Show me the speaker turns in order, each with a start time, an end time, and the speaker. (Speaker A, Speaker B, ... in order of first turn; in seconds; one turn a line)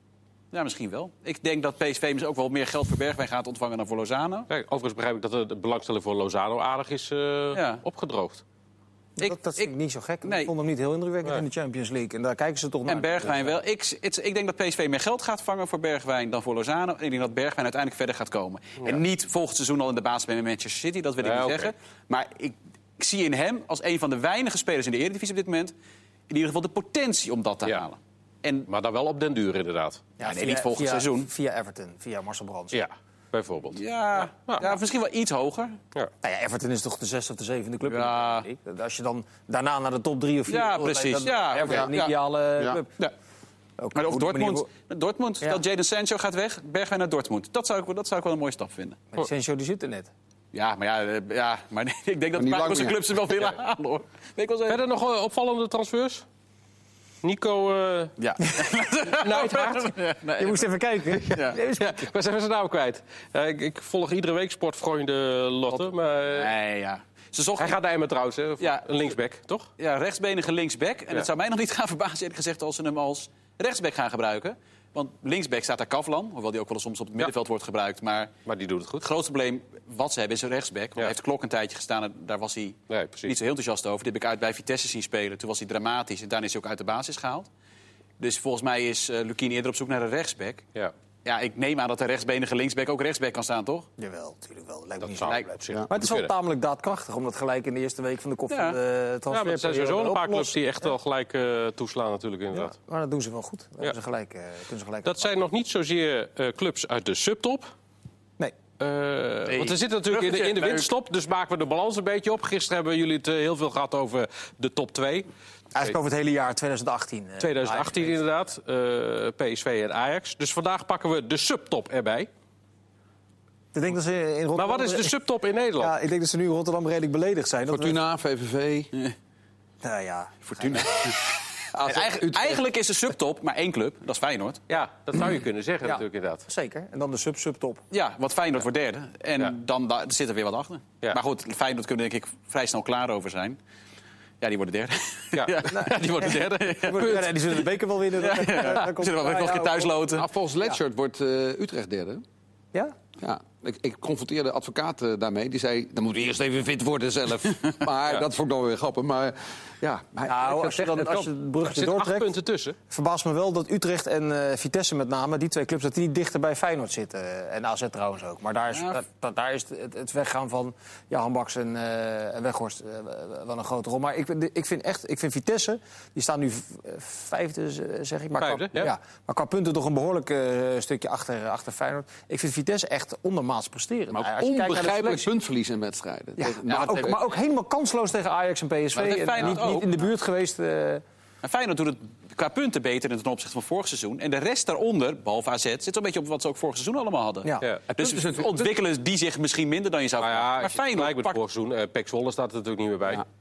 Speaker A: 0.5-4.5
Speaker B: 4.5-8.4
Speaker A: 7.5-7.8
Speaker A: 9.2-9.7
Speaker C: 9.2-13.5
Speaker A: 10.2-10.5
Speaker A: 12.9-25.7
Speaker B: 21.2-21.7
Speaker A: 26.3-28.7
Speaker B: 28.7-30.0
Speaker C: 30.2-32.8
Speaker A: 30.2-31.3
Speaker B: 32.7-33.8
Speaker A: 33.7-35.8
Speaker B: 34.3-34.8
Speaker C: 36.2-43.0
Speaker A: 37.9-38.5
Speaker A: 40.5-42.1
Speaker C: 43.8-44.6
Speaker A: 43.9-49.0
Speaker C: 49.1-50.1
Speaker A: 50.5-54.8
Speaker D: 52.4-53.0
Speaker B: 54.7-56.2
Speaker B: 57.2-58.1
Speaker A: 58.2-60.6
Speaker B: 59.1-60.0
Speaker C: 60.4-62.0
Speaker B: 61.2-66.5
Speaker A: 61.3-61.6
Speaker A: 66.3-67.8
Speaker B: 67.6-69.7
Speaker A: 68.6-68.9
Speaker A: 69.8-78.3
Speaker B: 78.5-79.0
Speaker A: 79.0-87.5
Speaker B: 82.9-83.3
Speaker A: 88.2-90.6
Speaker A: 91.2-93.9
Speaker C: 94.0-100.6
Speaker B: 95.0-96.3
Speaker A: 95.2-95.5
Speaker A: 98.5-98.8
Speaker B: 99.3-102.7
Speaker C: 102.5-105.3
Speaker B: 105.0-107.7
Speaker B: 108.8-115.3
Speaker A: 109.5-110.9
Speaker C: 115.7-118.2
Speaker B: 117.4-122.3
Speaker C: 123.7-125.2
Speaker B: 124.5-125.9
Speaker C: 125.8-128.0
Speaker D: 127.7-128.9
Speaker C: 129.8-131.1
Speaker A: 130.5-134.6
Speaker D: 131.7-132.6
Speaker B: 134.7-136.4
Speaker C: 135.8-137.8
Speaker A: 137.9-143.6
Speaker A: 144.4-147.6
Speaker B: 145.3-147.3
Speaker C: 145.7-150.0
Speaker A: 148.2-150.3
Speaker D: 150.1-152.2
Speaker D: 153.2-161.3
Speaker C: 160.2-162.3
Speaker B: 161.6-162.8
Speaker C: 162.9-185.2
Speaker A: 168.7-169.0
Speaker B: 178.4-178.9
Speaker D: 184.1-187.2
Speaker C: 186.4-191.0
Speaker A: 186.7-187.1
Speaker A: 188.9-189.9
Speaker A: 191.4-201.4
Speaker D: 197.9-198.7
Speaker B: 200.2-203.2